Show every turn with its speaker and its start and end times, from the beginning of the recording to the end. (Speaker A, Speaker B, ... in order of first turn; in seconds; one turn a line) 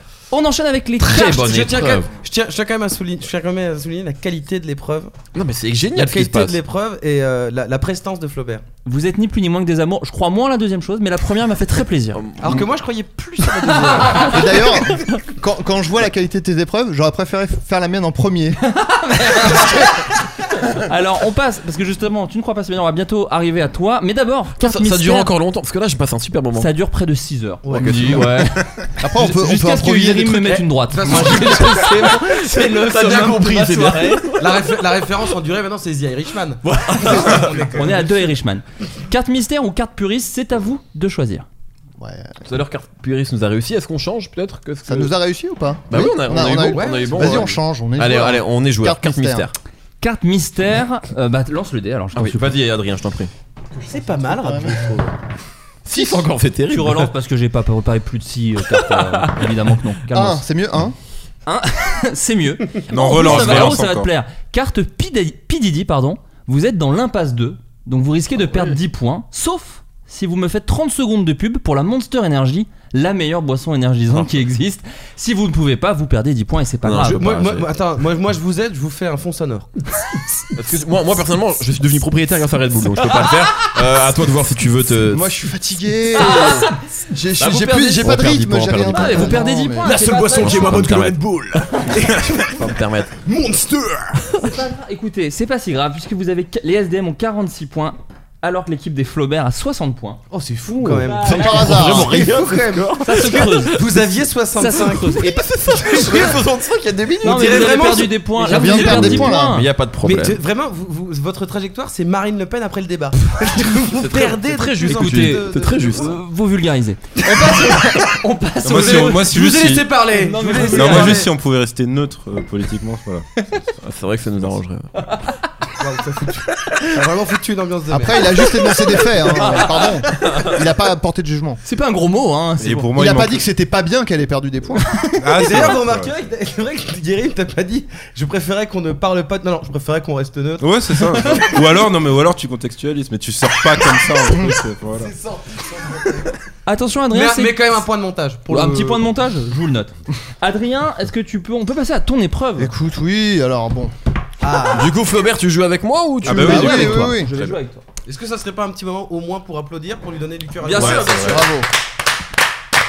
Speaker A: 0.3-1.6
Speaker B: 1.0-2.1
Speaker C: 1.1-5.1
Speaker B: 5.3-6.6
Speaker C: 5.9-8.6
Speaker A: 8.8-12.2
Speaker B: 12.1-12.7
Speaker C: 12.4-14.6
Speaker A: 13.8-14.4
Speaker D: 14.2-18.6
Speaker A: 18.6-20.1
Speaker A: 20.6-25.3
Speaker B: 24.6-26.7
Speaker A: 26.6-34.2
Speaker C: 27.6-28.3
Speaker B: 27.7-28.5
Speaker D: 29.0-30.7
Speaker C: 30.9-33.0
Speaker B: 31.1-34.8
Speaker C: 34.4-38.3
Speaker B: 36.7-37.7
Speaker A: 36.9-41.5
Speaker D: 42.0-42.3
Speaker B: 42.5-45.1
Speaker D: 44.9-49.5
Speaker B: 45.9-49.5
Speaker C: 46.7-47.6
Speaker A: 50.0-52.5
Speaker B: 52.1-53.3
Speaker D: 53.8-54.9
Speaker C: 53.8-55.1
Speaker B: 55.8-57.1
Speaker D: 55.9-56.2
Speaker A: 56.7-60.4
Speaker B: 58.7-59.5
Speaker D: 60.1-61.0
Speaker A: 61.5-77.2
Speaker E: 62.9-64.1
Speaker B: 76.8-77.7
Speaker C: 77.0-79.7
Speaker B: 80.5-85.4
Speaker A: 83.2-83.7
Speaker D: 85.1-90.0
Speaker A: 86.2-86.7
Speaker A: 87.4-88.0
Speaker B: 87.4-89.3
Speaker A: 88.9-90.9
Speaker C: 89.3-92.7
Speaker B: 90.3-91.2
Speaker B: 91.7-93.2
Speaker C: 93.2-94.5
Speaker A: 94.4-100.2
Speaker C: 100.3-106.4
Speaker A: 101.0-101.7
Speaker B: 101.1-104.0
Speaker D: 101.2-102.2
Speaker A: 103.0-103.8
Speaker A: 104.5-106.2
Speaker B: 105.2-107.9
Speaker C: 107.2-108.8
Speaker A: 107.2-109.7
Speaker D: 108.4-109.6
Speaker B: 108.6-110.4
Speaker C: 110.0-116.2
Speaker B: 113.9-116.2
Speaker A: 114.9-119.3
Speaker C: 117.3-117.8
Speaker E: 118.6-119.9
Speaker C: 118.7-121.3
Speaker A: 120.1-121.3
Speaker E: 120.6-123.2
Speaker B: 123.8-124.9
Speaker A: 125.0-125.4
Speaker C: 125.8-128.5
Speaker D: 127.9-131.6
Speaker C: 129.3-129.7
Speaker A: 129.4-130.5
Speaker A: 131.6-132.9
Speaker E: 132.6-133.4
Speaker D: 132.9-135.0
Speaker E: 135.2-136.1
Speaker C: 135.3-141.6
Speaker E: 140.6-145.1
Speaker C: 144.9-146.3
Speaker A: 146.7-147.7
Speaker C: 147.1-149.1
Speaker A: 148.5-152.7
Speaker D: 152.6-153.9
Speaker C: 154.4-154.9
Speaker B: 154.7-157.5
Speaker D: 156.2-157.3
Speaker E: 156.2-157.0
Speaker A: 156.3-157.8
Speaker C: 158.1-161.5
Speaker A: 160.6-161.4
Speaker B: 160.8-161.4
Speaker D: 161.2-161.7